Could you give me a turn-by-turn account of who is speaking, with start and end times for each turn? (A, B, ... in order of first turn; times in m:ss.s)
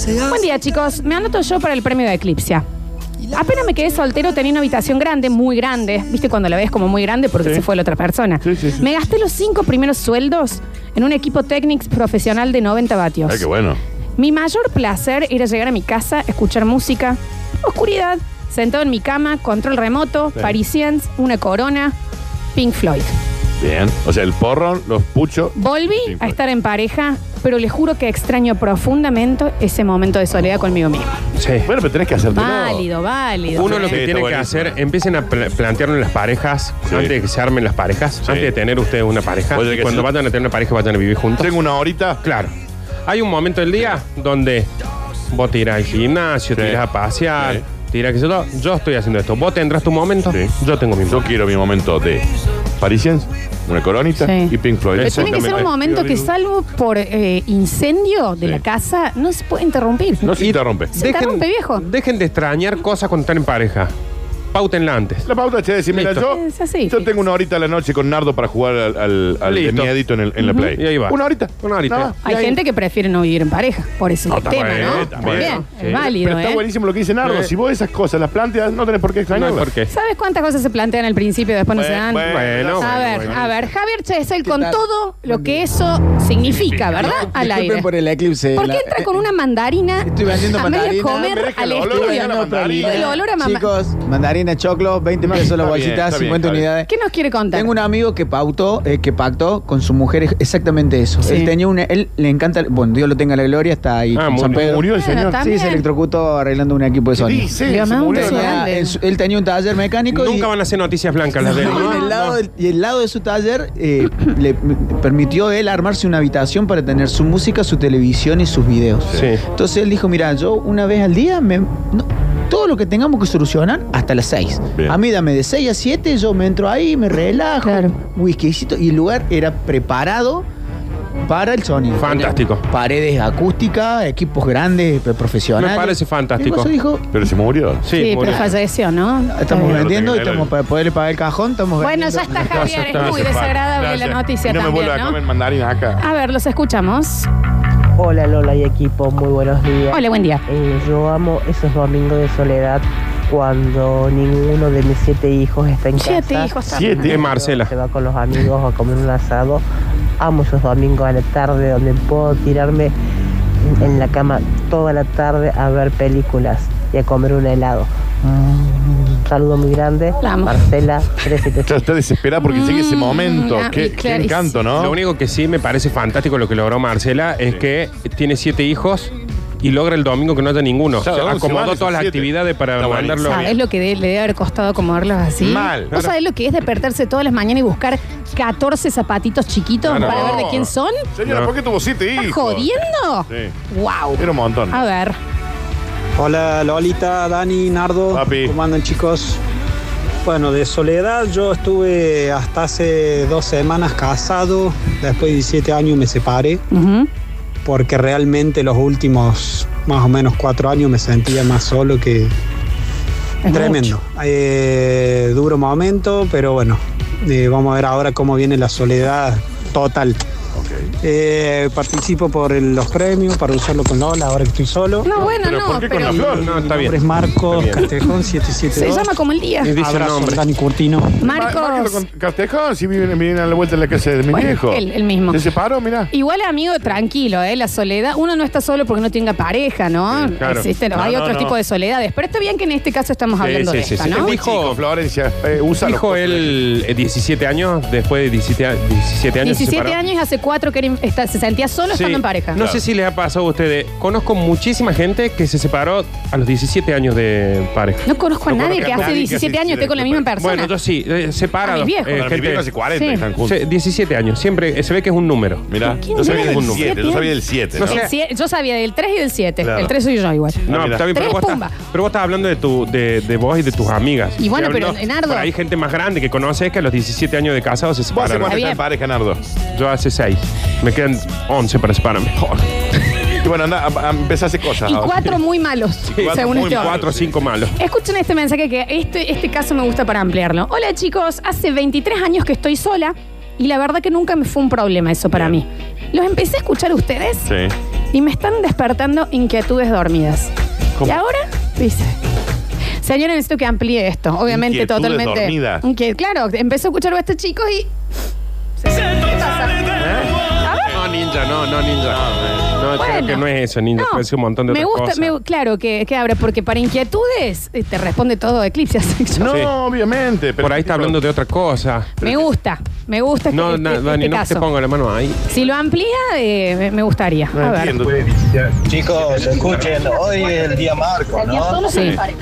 0:00.2-0:02.6 A
0:03.3-0:13.4 A
0:08.4-0:08.8 B
0:13.3-0:13.8 B
0:14.2-0:21.9 A
0:22.5-0:23.1 A
0:23.6-0:25.6 B
0:25.6-0:31.1 A
0:26.1-0:26.3 B
0:31.4-0:31.7 C
0:31.6-0:32.9 B
0:32.3-0:34.0 A
0:33.5-0:41.5 C
0:33.6-0:34.8 B
0:36.9-0:37.1 B
0:38.2-0:38.5 B
0:39.5-0:40.1 B
0:41.4-0:42.2 B
0:42.2-0:42.5 C
0:43.0-0:44.7 C
0:45.3-0:51.3 C
0:46.6-0:46.8 B
0:47.4-0:47.6 B
0:51.0-0:52.2 B
0:52.8-0:56.3 B
0:54.2-1:00.3 A
0:55.0-0:55.6 C
1:00.2-1:00.9 B
1:00.4-1:03.9 C
1:00.9-1:01.8 A
1:04.5-1:05.3 C
1:05.3-1:12.5 B
1:05.9-1:06.2 C
1:06.3-1:07.0 A
1:09.4-1:09.9 C
1:10.4-1:10.7 A
1:10.8-1:12.1 C
1:12.2-1:16.6 A
1:14.3-1:16.0 C
1:14.5-1:19.7 B
1:17.2-1:17.5 C
1:19.3-1:19.9 C
1:19.9-1:27.9 A
1:21.8-1:23.6 B
1:22.2-1:23.3 C
1:24.4-1:25.6 D
1:26.4-1:27.3 B
1:27.0-1:29.1 D
1:28.5-1:33.7 A
1:30.0-1:36.9 D
1:31.1-1:33.2 B
1:35.2-1:36.7 B
1:36.9-1:37.7 A
1:37.5-1:44.8 D
1:41.2-1:41.5 A
1:44.2-1:44.6 C
1:44.5-1:45.4 B
1:45.0-1:45.8 A
1:45.4-1:47.5 D
1:47.1-1:48.6 B
1:47.6-1:49.0 A
1:48.1-1:50.5 D
1:50.1-1:52.4 C
1:51.4-2:10.4 D
1:51.6-1:52.1 A
1:59.1-1:59.4 C
2:07.6-2:08.0 A
2:11.3-2:17.1 D
2:12.0-2:12.6 C
2:15.6-2:16.7 C
2:17.1-2:18.5 B
2:17.8-2:18.4 C
2:18.0-2:19.9 A
2:19.3-2:22.5 D
2:19.6-2:20.5 B
2:21.8-2:25.2 A
2:22.5-2:26.0 B
2:22.5-2:23.3 C
2:26.0-2:27.3 A
2:28.0-2:36.6 E
2:29.9-2:30.4 A
2:36.0-2:37.1 A
2:36.7-2:37.2 B
2:37.0-2:37.7 C
2:37.1-2:39.6 E
2:40.2-2:42.9 E
2:43.6-2:51.8 E
2:50.2-2:50.5 A
2:51.6-2:55.0 B
2:52.4-2:54.6 A
2:54.7-3:03.5 C
3:01.0-3:03.5 B
3:03.3-3:11.0 A
3:05.4-3:05.9 B
3:09.8-3:10.7 C
3:10.0-3:10.6 B
3:11.2-3:12.8 B
3:11.2-3:11.5 C
3:12.2-3:15.2 A
3:14.2-3:14.8 B
3:16.2-3:19.4 F
3:18.1-3:18.5 B
3:20.2-3:26.6 F
3:26.7-3:27.1 A
3:27.6-3:32.3 F
3:33.4-3:34.0 A
3:33.5-3:40.2 F
3:40.5-3:40.9 B
3:41.0-3:45.1 F
3:45.0-3:46.4 A
3:45.2-3:46.5 B
3:46.4-3:47.8 C
3:46.5-3:49.1 F
3:48.7-3:49.7 A
3:49.6-3:50.4 C
3:49.8-3:51.2 F
3:51.2-3:52.0 A
3:51.2-3:56.1 B
3:54.3-3:55.4 A
3:56.1-4:04.3 A
4:00.4-4:00.6 C
4:00.9-4:01.5 B
4:03.4-4:04.8 C
4:04.0-4:06.6 B
4:05.7-4:10.0 C
4:09.4-4:12.6 A
4:11.9-4:18.0 C
4:12.6-4:12.8 B
4:18.0-4:20.7 A
4:18.4-4:20.3 B
4:20.4-4:22.7 C
4:21.6-4:22.2 A
4:22.1-4:23.6 B
4:23.0-4:23.2 A
4:23.4-4:26.9 C
4:25.7-4:28.0 B
4:25.8-4:31.7 A
4:27.8-4:28.1 C
4:29.6-4:29.9 B
4:30.7-4:31.0 B
4:30.7-4:38.6 C
4:34.4-4:35.5 A
4:38.1-4:39.4 B
4:38.4-4:38.8 A
4:39.7-4:42.5 C
4:43.4-4:45.3 B
4:44.8-4:46.9 A
4:46.1-4:47.3 B
4:46.1-4:47.7 C
4:47.8-4:57.5 A
4:57.4-4:57.7 B
4:58.1-5:00.5 A
5:01.0-5:02.1 A
5:03.0-5:07.9 A
5:04.5-5:05.8 B
5:08.8-5:10.0 A
5:10.0-5:10.3 C
5:10.6-5:10.9 A
5:10.9-5:15.3 C
5:12.1-5:12.6 B
5:13.0-5:13.4 A
5:14.0-5:19.5 A
5:19.4-5:21.2 B
5:20.6-5:22.2 C
5:22.2-5:24.6 A
5:23.5-5:25.4 C
5:25.5-5:28.0 A
5:27.5-5:28.3 B
5:28.8-5:31.8 G
5:31.6-5:32.1 A
5:31.9-5:32.2 C